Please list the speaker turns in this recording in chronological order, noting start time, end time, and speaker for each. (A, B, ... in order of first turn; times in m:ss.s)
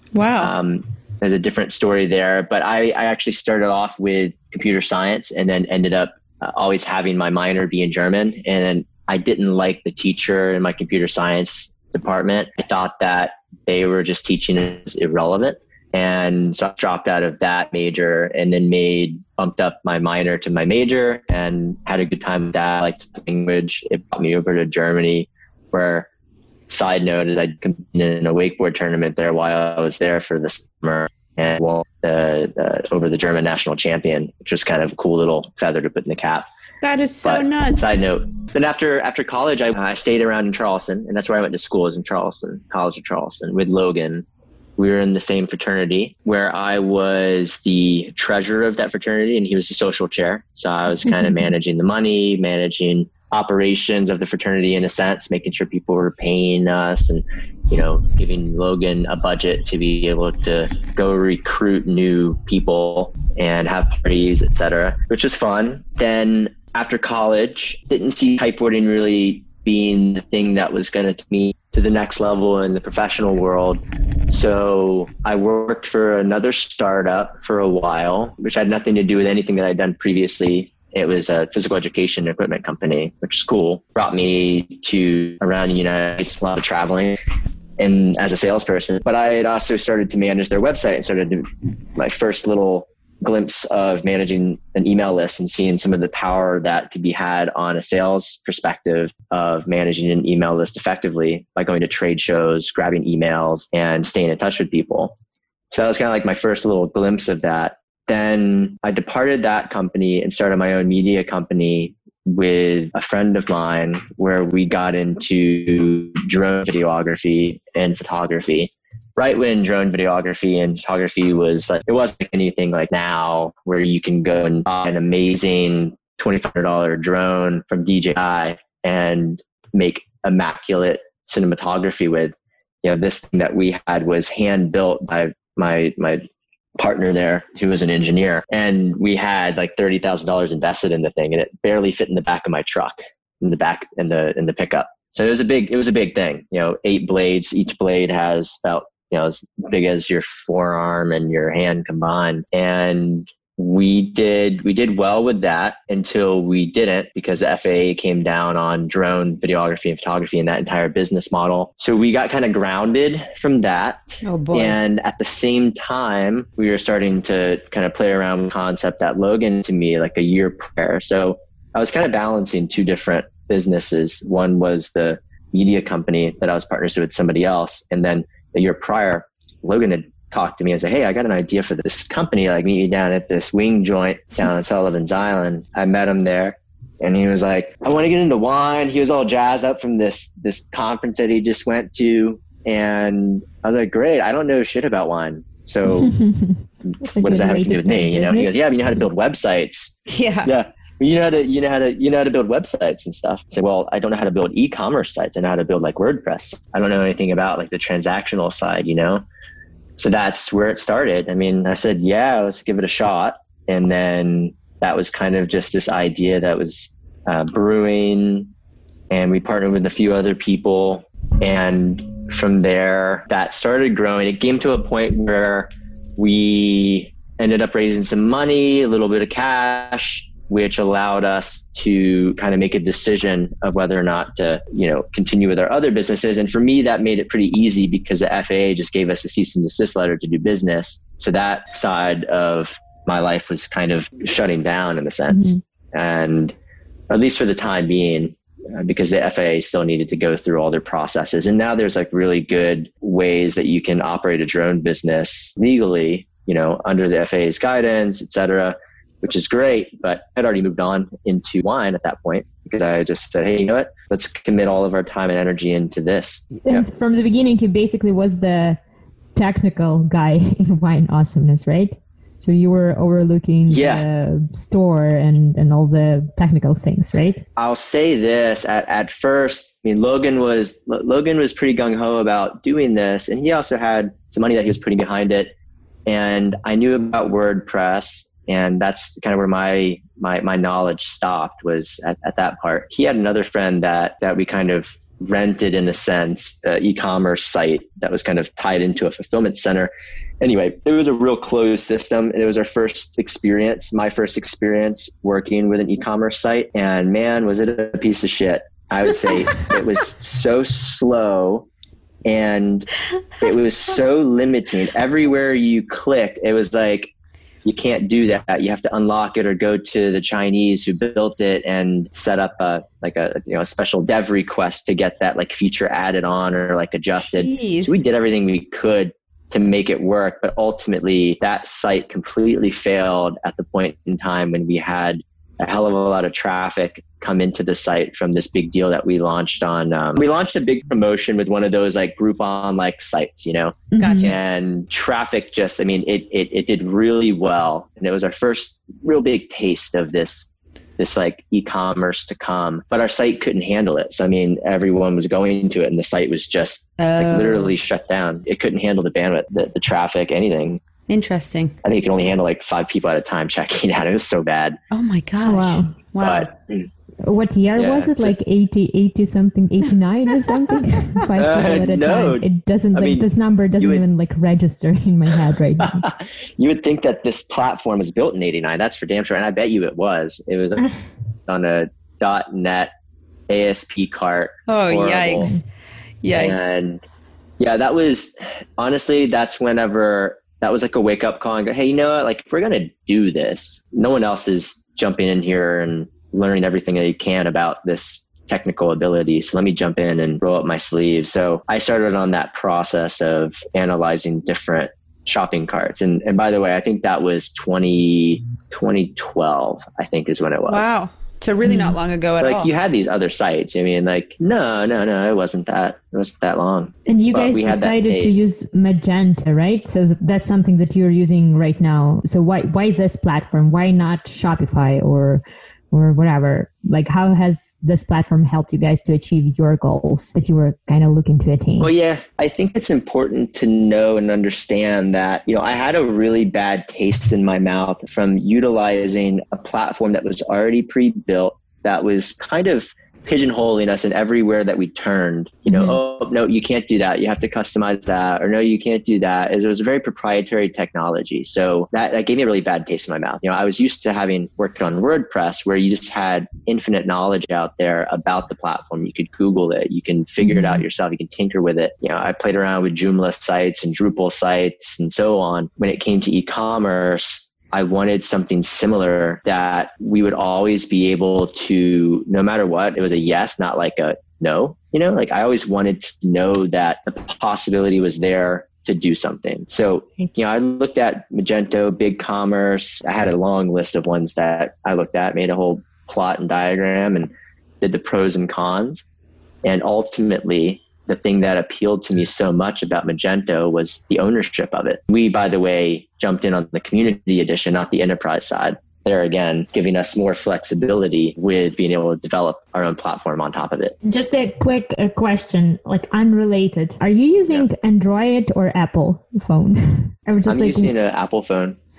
0:00.1-0:00.5 A
0:00.4-0:26.1 B
0:26.7-0:36.5 B
0:36.8-0:38.0 A
0:37.2-0:44.2 B
0:44.8-1:27.2 B
1:27.8-1:45.2 B
1:45.7-2:16.2 B
2:16.8-3:16.2 B
2:44.2-2:44.8 A
3:15.9-3:18.6 C
3:17.2-3:29.2 B
3:20.1-3:20.5 A
3:30.0-3:38.5 B
3:39.1-4:06.5 B
4:05.3-4:05.6 C
4:07.1-4:26.8 B
4:26.6-4:28.8 C
4:29.4-4:37.4 C
4:33.7-4:34.0 B
4:37.6-4:45.5 B
4:46.1-5:11.7 B
5:12.2-5:17.1 B
5:17.6-6:00.8 B
5:27.2-5:28.0 A
5:44.0-5:44.4 A
5:44.0-5:44.4 C
5:57.0-5:57.8 A
6:01.1-6:01.8 A
6:01.8-6:04.8 B
6:04.9-6:06.5 A
6:05.4-6:06.0 C
6:06.2-6:06.9 B
6:07.2-6:16.0 C
6:07.8-6:08.3 B
6:11.4-6:13.2 B
6:15.8-6:20.9 B
6:21.5-6:22.9 B
6:23.5-6:25.5 B
6:24.7-6:25.6 A
6:26.2-6:26.8 A
6:26.3-6:27.0 B
6:27.6-6:50.9 B
6:50.7-6:52.7 A
6:51.6-6:52.0 C
6:52.4-6:58.4 B
6:57.1-7:11.9 C
7:11.8-8:09.1 B
7:25.7-7:26.0 C
7:40.4-7:40.8 C
8:09.6-8:24.0 B
8:24.0-8:30.9 C
8:30.5-8:31.8 B